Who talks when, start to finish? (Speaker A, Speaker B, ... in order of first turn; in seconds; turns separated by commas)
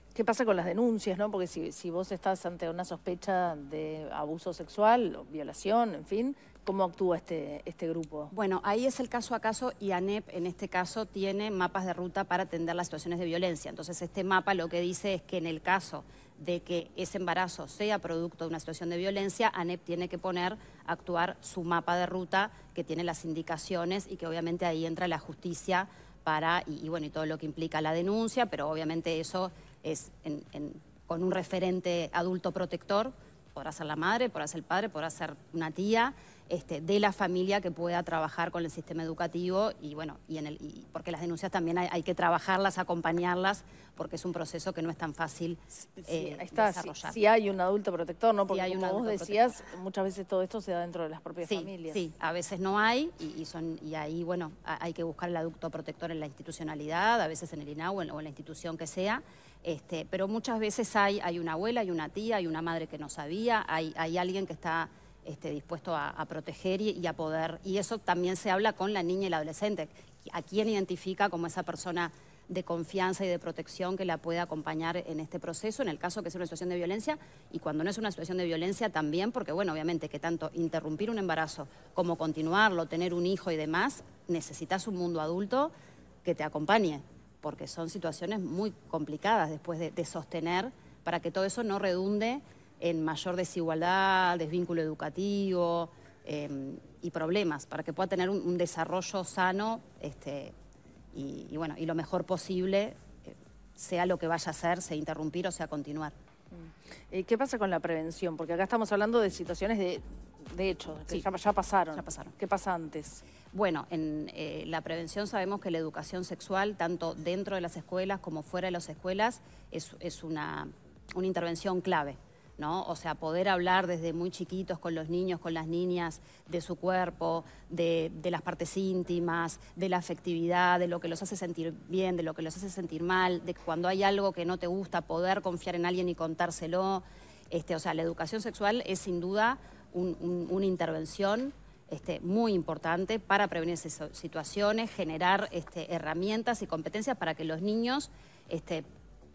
Speaker A: 0.1-8.3, Speaker B: 8.3-47.2, Speaker A: 46.0-52.0, Speaker B: 48.5-49.7, Speaker B: 51.4-85.7, Speaker B: 86.2-100.5, Speaker B: 101.1-106.1, Speaker A: 106.5-113.2, Speaker B: 111.9-112.3, Speaker B: 113.5-148.8